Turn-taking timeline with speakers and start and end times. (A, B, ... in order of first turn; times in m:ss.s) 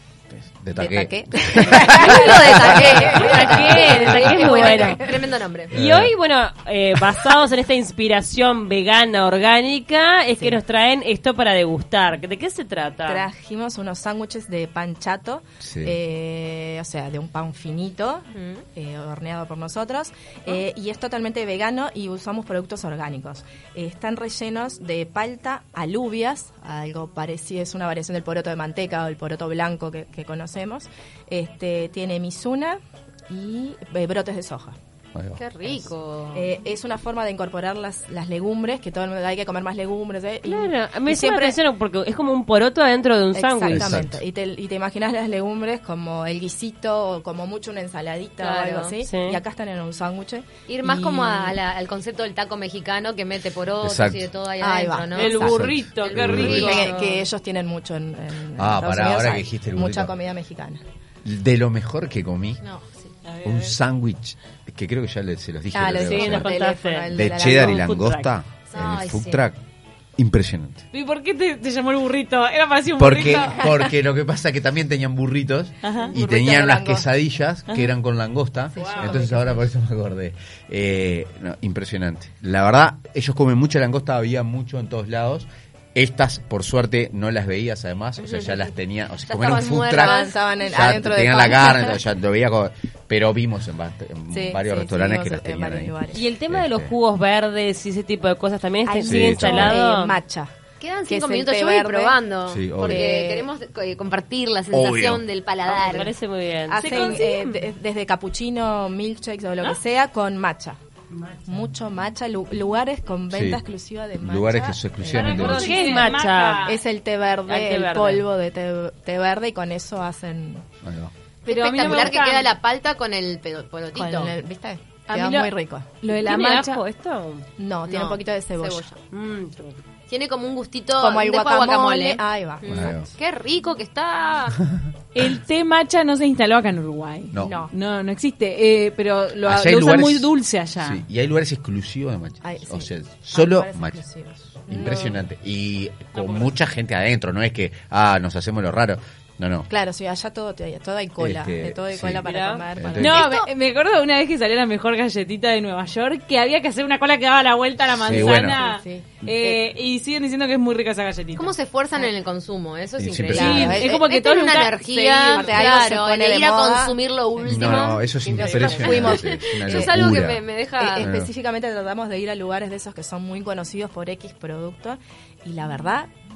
0:00.3-0:03.7 A
0:00.8-0:05.2 B
0:01.7-0:05.7 C
0:03.2-0:05.1 D
0:05.7-0:06.1 A
0:05.7-0:13.3 D
0:13.0-0:34.7 B
0:15.6-0:15.9 A
0:18.3-0:18.6 C
0:35.1-0:35.4 A
0:35.4-0:36.5 C
0:36.3-0:41.6 B
0:40.4-0:44.0 D
0:43.3-0:51.6 B
0:43.7-0:44.2 A
0:48.4-0:48.9 C
0:49.0-0:49.4 D
0:50.7-0:57.2 C
0:53.8-0:54.3 A
0:54.6-0:55.7 B
0:55.1-0:57.0 E
0:55.3-0:56.8 A
0:56.4-1:00.8 B
0:58.6-1:00.1 A
1:01.2-1:02.6 A
1:02.6-1:03.1 C
1:03.2-1:03.7 E
1:03.4-1:06.5 A
1:05.7-1:07.9 B
1:06.0-1:08.3 D
1:07.1-1:09.6 A
1:08.7-1:09.4 C
1:10.2-1:10.8 A
1:10.9-1:13.8 E
1:13.0-1:35.9 A
1:15.8-1:16.2 E
1:16.0-1:17.1 B
1:18.7-1:19.6 B
1:18.8-1:19.2 E
1:28.2-1:28.7 C
1:29.3-1:30.5 C
1:30.0-1:32.0 B
1:31.2-1:31.9 C
1:34.3-1:36.2 B
1:36.1-1:40.2 D
1:36.5-1:36.9 A
1:38.8-1:40.5 B
1:39.0-1:39.8 A
1:40.8-1:46.1 C
1:41.1-1:42.2 B
1:42.5-1:43.0 A
1:42.8-1:43.5 B
1:44.7-1:45.2 A
1:45.7-1:47.6 D
1:46.7-1:50.8 B
1:46.8-1:47.2 E
1:51.4-1:55.8 B
1:53.3-1:53.6 A
1:54.2-1:55.7 A
1:55.1-1:56.8 E
1:55.4-1:56.7 D
1:56.6-2:00.6 B
1:57.4-1:58.3 D
2:00.8-2:01.1 A
2:01.4-2:04.3 C
2:01.4-2:02.5 E
2:03.9-2:06.0 B
2:05.1-2:06.8 E
2:06.1-2:07.4 D
2:07.6-2:08.9 B
2:07.8-2:09.0 C
2:09.1-2:09.8 D
2:10.1-2:14.6 C
2:10.9-2:12.9 B
2:12.7-2:13.1 A
2:15.1-2:21.0 E
2:17.3-2:17.6 A
2:17.4-2:17.7 B
2:19.4-2:24.0 A
2:22.4-2:25.2 B
2:24.6-2:29.7 A
2:26.2-2:26.5 E
2:29.7-2:33.2 B
2:31.2-2:33.2 A
2:32.3-2:32.6 D
2:32.9-2:41.5 E
2:33.0-2:33.5 C
2:37.9-2:38.6 A
2:38.1-2:39.6 B
2:41.3-2:51.1 C
2:43.0-2:43.9 A
2:43.3-2:43.9 B
2:43.3-2:45.7 E
2:45.3-2:50.1 B
2:47.4-2:50.4 A
2:50.8-2:56.1 B
2:51.0-2:51.3 A